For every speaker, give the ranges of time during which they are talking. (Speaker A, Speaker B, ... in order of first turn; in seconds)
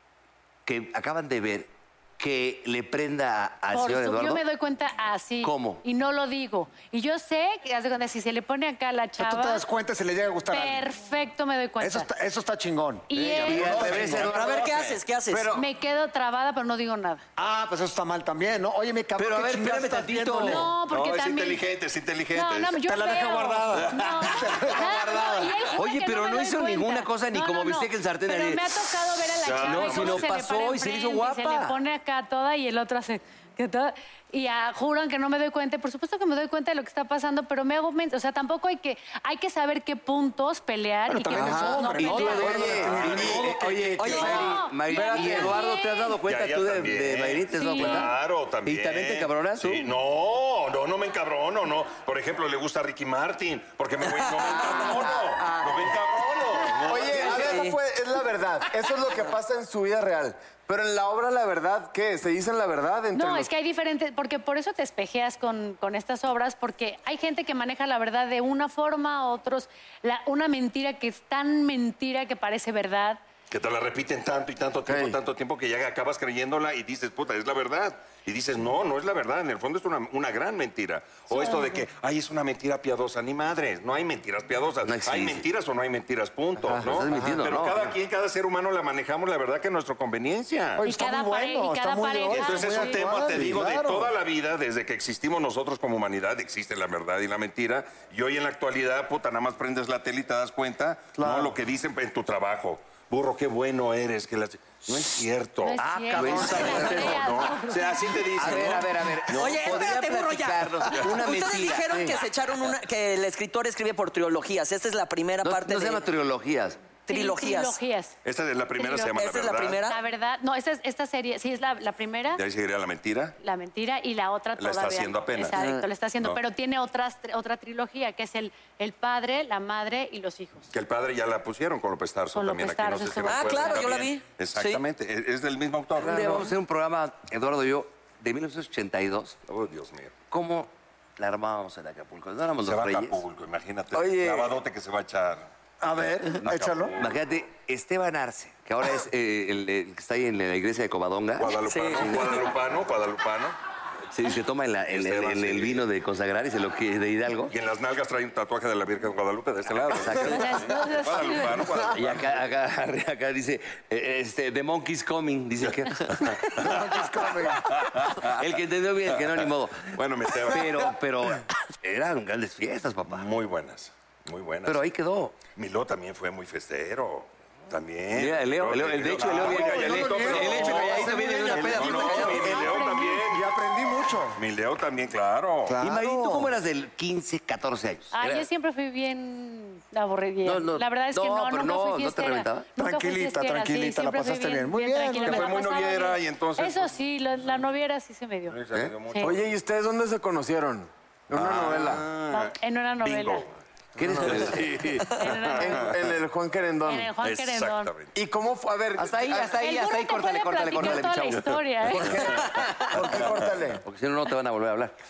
Speaker A: 0.7-4.4, 5.4-5.8, 13.1-14.8, 19.2-20.7, 25.7-28.8, 29.5-31.8, 41.4-49.9, 84.8-85.5, 86.7-88.0, 105.8-107.5, 108.3-112.2, 115.4-116.8, 136.0-139.4, 140.3-143.2, 147.0-152.5, 154.1-157.5, 159.9-160.8, 161.9-166.7, 168.2-173.3, 174.7-175.4, 178.2-182.7, 185.8-188.5, 190.4-192.7, 204.0-205.0, 209.0-213.2, 213.8-214.9
Speaker B: 3.7-9.6, 10.5-12.1, 13.1-13.9, 15.5-17.2, 20.4-21.6, 22.3-42.8, 44.0-46.2, 47.5-48.1, 63.1-73.2, 81.3-81.7, 90.8-93.3, 105.6-108.5, 117.1-118.2, 118.8-119.2, 119.9-122.4, 123.4-130.7, 132.3-134.0, 160.2-161.7, 182.1-183.3, 188.1-199.3, 202.3-203.5, 205.1-205.9, 206.9-207.9, 209.5-212.5
Speaker C: 9.2-10.8, 11.8-14.4, 17.4-20.7, 22.8-25.6, 41.1-44.3, 90.8-94.2, 101.2-101.6, 145.8-146.9, 166.6-167.7, 179.4-184.4, 185.7-186.5, 192.8-195.6
Speaker D: 13.2-15.0, 20.9-22.8, 23.7-24.1, 29.4-30.3, 43.0-43.4, 46.3-57.7, 73.5-90.8, 92.3-109.9, 118.2-119.8, 122.4-123.4, 124.6-125.6, 130.7-136.5, 139.5-140.1, 142.6-145.5, 146.0-147.2, 151.4-153.6, 154.9-155.9, 157.5-162.4, 167.5-168.5, 169.1-171.0, 173.1-174.8, 175.5-183.5, 184.3-185.8, 195.2-197.0, 198.5-199.4, 201.3-203.5, 204.2-205.9, 207.2-208.1
Speaker E: 14.1-15.6, 44.0-44.5, 109.3-116.0, 117.1-117.8, 119.1-120.0, 133.2-134.8, 151.7-152.3
Speaker F: 15.3-15.6, 41.3-45.5, 54.5-56.0, 56.8-63.5, 74.8-75.2, 86.7-86.9, 143.9-144.6, 199.2-202.1, 204.0-204.6, 205.6-207.1, 208.1-209.6, 212.0-213.8